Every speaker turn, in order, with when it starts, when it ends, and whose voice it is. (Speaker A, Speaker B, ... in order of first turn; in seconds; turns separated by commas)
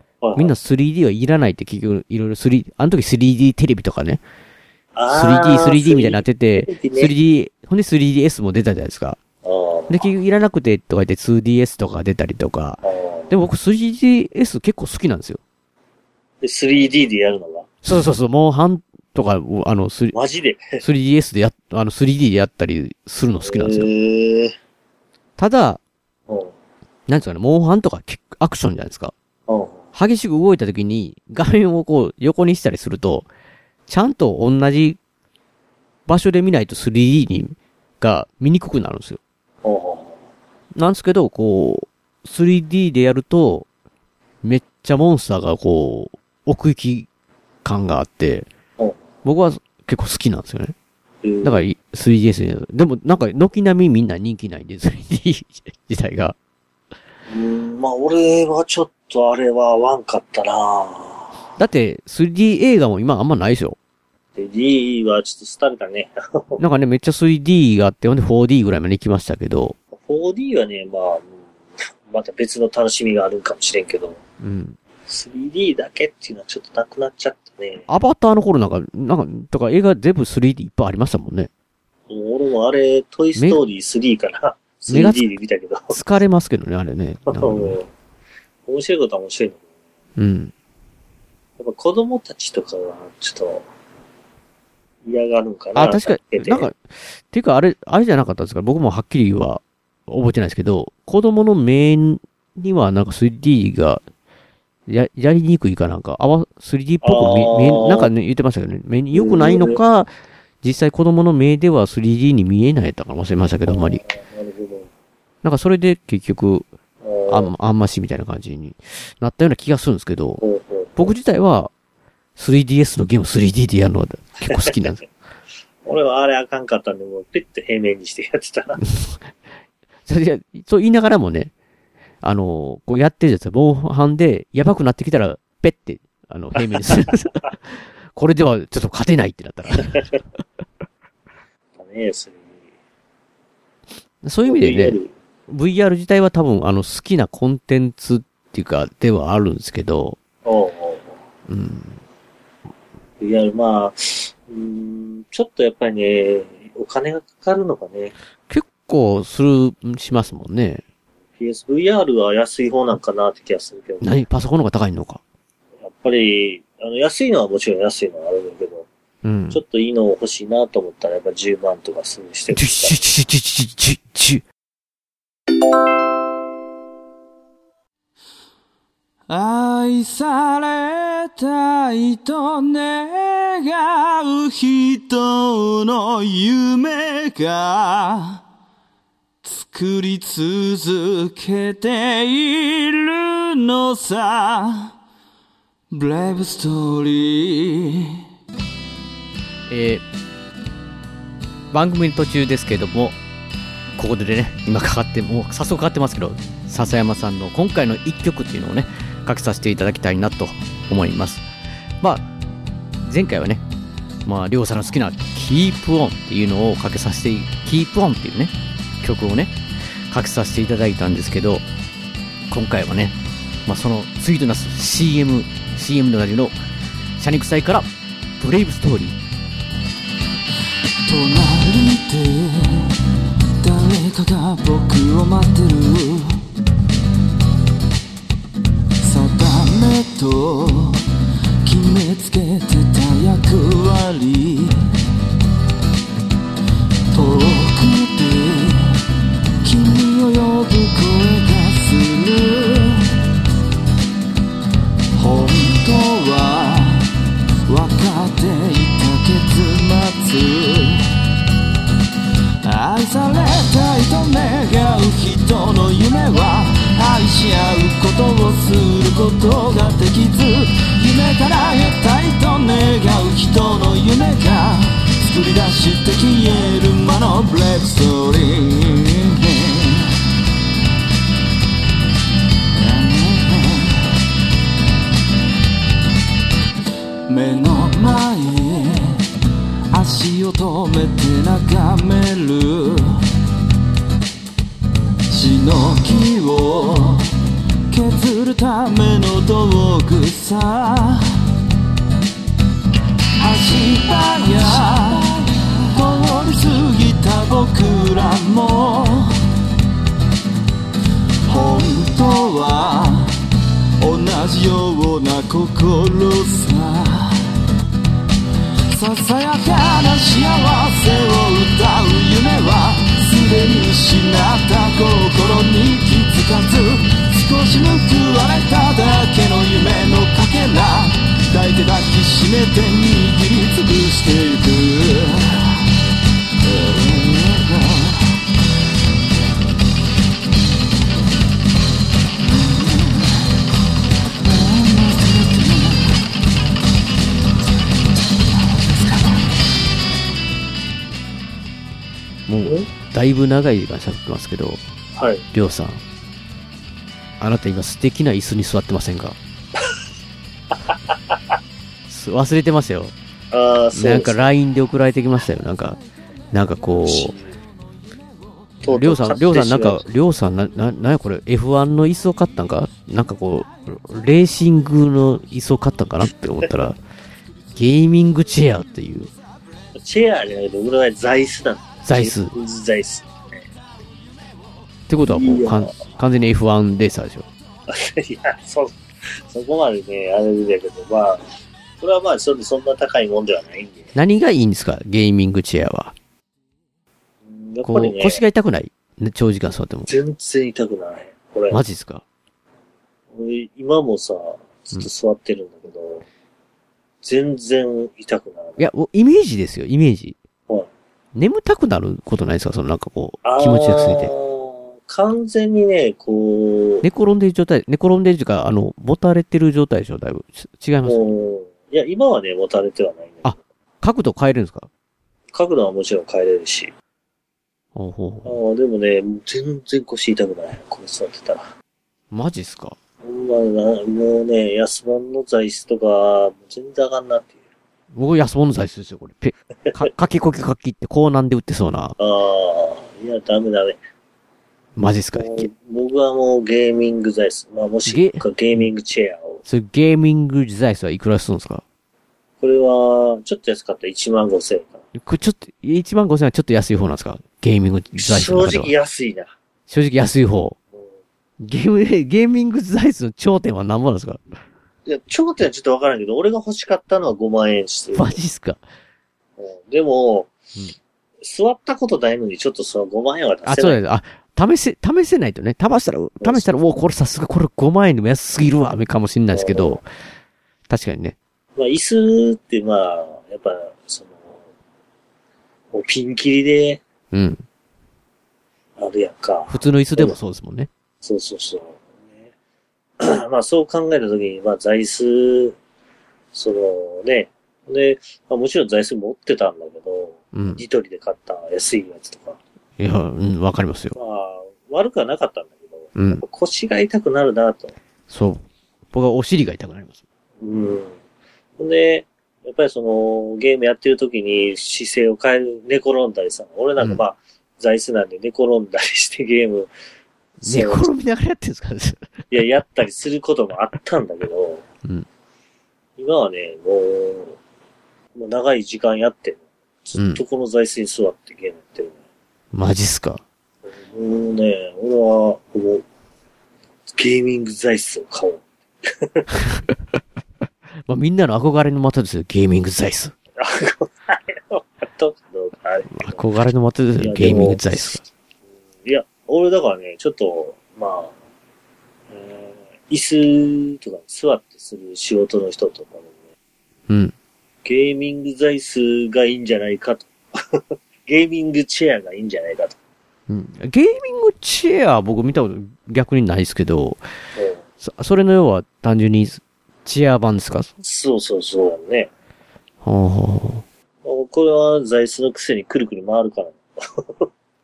Speaker A: 0.2-0.6, Speaker B: 0.4-4.2, Speaker A: 5.0-7.1, Speaker B: 5.1-9.2, Speaker A: 9.4-10.1, Speaker B: 9.9-15.4, Speaker A: 12.8-13.3, Speaker A: 16.4-17.7, Speaker B: 17.8-20.2, Speaker A: 20.1-20.8, Speaker B: 20.8-23.9, Speaker A: 23.4-24.6, Speaker B: 25.4-25.8, Speaker B: 27.1-29.1, Speaker A: 29.5-29.9, Speaker B: 29.9-33.3, Speaker B: 33.9-35.0, Speaker B: 36.1-39.2, Speaker A: 39.6-40.2, Speaker B: 40.8-43.7, Speaker B: 44.4-47.1, Speaker B: 47.6-48.5, Speaker B: 49.2-50.7, Speaker A: 51.2-51.7, Speaker B: 51.4-56.4, Speaker A: 57.3-61.3, Speaker B: 61.6-63.8, Speaker A: 64.4-66.6, Speaker B: 66.6-69.8, Speaker A: 70.0-74.2, Speaker B: 74.4-74.8, Speaker A: 75.1-77.9, Speaker B: 77.9-81.5, Speaker A: 82.1-86.0, Speaker B: 83.4-83.6, Speaker B: 84.9-85.3, Speaker B: 85.9-87.8, Speaker A: 87.3-87.9, Speaker A: 88.7-89.6, Speaker B: 90.2-90.5, Speaker A: 91.6-93.7, Speaker A: 95.0-96.7, Speaker B: 95.8-104.0, Speaker B: 104.9-110.1, Speaker A: 107.0-108.1, Speaker A: 109.1-109.8, Speaker B: 110.6-114.0, Speaker A: 113.7-114.9, Speaker B: 115.4-116.7, Speaker A: 117.0-117.5, Speaker B: 117.3-120.4, Speaker A: 120.4-121.2, Speaker B: 121.0-121.7, Speaker B: 122.4-125.0, Speaker A: 125.9-128.8, Speaker B: 128.8-129.2, Speaker B: 130.1-131.5, Speaker B: 132.2-140.0, Speaker A: 141.8-142.4, Speaker B: 144.2-150.2, Speaker A: 144.4-145.1, Speaker A: 150.4-151.2, Speaker B: 151.5-152.0, Speaker A: 153.2-158.1, Speaker B: 158.5-160.8, Speaker A: 161.4-164.2, Speaker B: 164.0-165.2, Speaker A: 165.8-168.9, Speaker B: 169.2-169.6, Speaker A: 169.5-173.0, Speaker B: 172.5-174.4, Speaker C: 179.3-188.4, Speaker C: 189.4-194.9, Speaker C: 195.9-198.2, Speaker B: 199.7-200.0, Speaker B: 201.7-203.2, Speaker B: 204.0-211.4, Speaker B: 212.0-212.3, Speaker B: 213.0-213.6, Speaker B: 214.2-219.6, Speaker B: 220.1-221.7, Speaker B: 222.5-226.6, Speaker B: 227.2-229.2, Speaker C: 231.1-232.9, Speaker C: 233.6-236.4, Speaker C: 239.0-241.1, Speaker C: 241.7-244.9, Speaker C: 247.1-249.0, Speaker C: 249.6-253.1, Speaker C: 255.2-257.1, Speaker C: 257.7-261.1, Speaker C: 262.6-280.1, Speaker C: 282.8-284.1, Speaker C: 287.3-289.3, Speaker C: 289.9-293.2, Speaker C: 295.3-297.4, Speaker C: 297.9-301.4, Speaker C: 303.4-309.4, Speaker C: 311.5-313.4, Speaker C: 314.0-317.5, Speaker C: 318.9-335.8, Speaker C: 336.6-338.4, Speaker C: 342.4-343.4, Speaker C: 344.4-346.2, Speaker C: 348.9-349.4, Speaker B: 352.5-354.8, Speaker A: 355.1-355.4, Speaker B: 355.5-356.0, Speaker B: 357.4-359.4, Speaker B: 362.1-363.1, Speaker A: 363.5-364.4, Speaker B: 363.9-366.0, Speaker B: 366.5-367.4, Speaker A: 367.0-367.5, Speaker A: 368.8-370.1, Speaker B: 368.9-377.0, Speaker B: 377.8-379.3, Speaker A: 379.9-383.6, Speaker B: 382.0-382.5, Speaker B: 385.1-387.5, Speaker A: 385.3-386.0, Speaker A: 387.9-389.0, Speaker A: 389.5-394.1, Speaker B: 394.1-396.1, Speaker A: 397.5-398.4, Speaker B: 397.9-400.1, Speaker A: 400.1-401.8, Speaker B: 401.7-402.2, Speaker A: 403.3-406.3, Speaker A: 407.2-408.9, Speaker B: 408.8-410.4, Speaker B: 411.4-414.3, Speaker A: 413.4-417.1, Speaker B: 417.0-421.3, Speaker A: 421.1-423.6, Speaker B: 423.4-424.9, Speaker A: 425.5-426.9, Speaker B: 427.9-428.5, Speaker A: 428.4-431.7, Speaker B: 432.3-433.0, Speaker A: 433.2-437.6, Speaker B: 438.1-442.1, Speaker A: 442.2-444.0, Speaker B: 445.0-445.7, Speaker A: 445.4-449.6, Speaker B: 448.1-448.8, Speaker B: 449.6-451.8, Speaker A: 452.6-455.0, Speaker B: 455.1-458.9, Speaker A: 458.2-459.5, Speaker B: 459.9-460.8, Speaker B: 461.6-464.4, Speaker A: 465.1-468.4, Speaker B: 468.1-468.8, Speaker A: 469.6-470.5, Speaker A: 471.4-474.0, Speaker B: 473.6-480.1, Speaker A: 476.4-476.7, Speaker A: 479.5-480.0, Speaker B: 480.9-481.4, Speaker A: 481.8-484.5, Speaker A: 485.9-487.0, Speaker B: 487.3-487.6, Speaker A: 489.0-490.4, Speaker B: 489.7-490.9, Speaker A: 491.2-492.1, Speaker A: 493.2-495.8, Speaker A: 496.5-502.6, Speaker B: 500.5-500.8, Speaker B: 503.0-504.2, Speaker A: 504.1-507.9, Speaker B: 506.2-506.4, Speaker B: 508.3-510.2, Speaker A: 510.6-511.2, Speaker A: 511.8-519.9, Speaker A: 520.6-521.1, Speaker B: 520.6-522.3, Speaker A: 522.5-524.8, Speaker A: 526.2-527.6, Speaker A: 528.4-532.2, Speaker B: 530.2-530.4, Speaker B: 532.7-533.4, Speaker A: 533.9-536.0, Speaker A: 537.1-539.5, Speaker B: 541.1-543.3, Speaker A: 543.6-546.5, Speaker B: 546.1-548.2, Speaker A: 547.2-548.2, Speaker A: 549.0-551.3, Speaker A: 552.3-556.3, Speaker B: 557.1-557.3, Speaker A: 557.9-563.0, Speaker B: 563.5-567.2, Speaker A: 567.6-567.8, Speaker B: 568.0-570.9, Speaker A: 571.0-572.3, Speaker B: 573.0-573.9, Speaker A: 574.2-577.5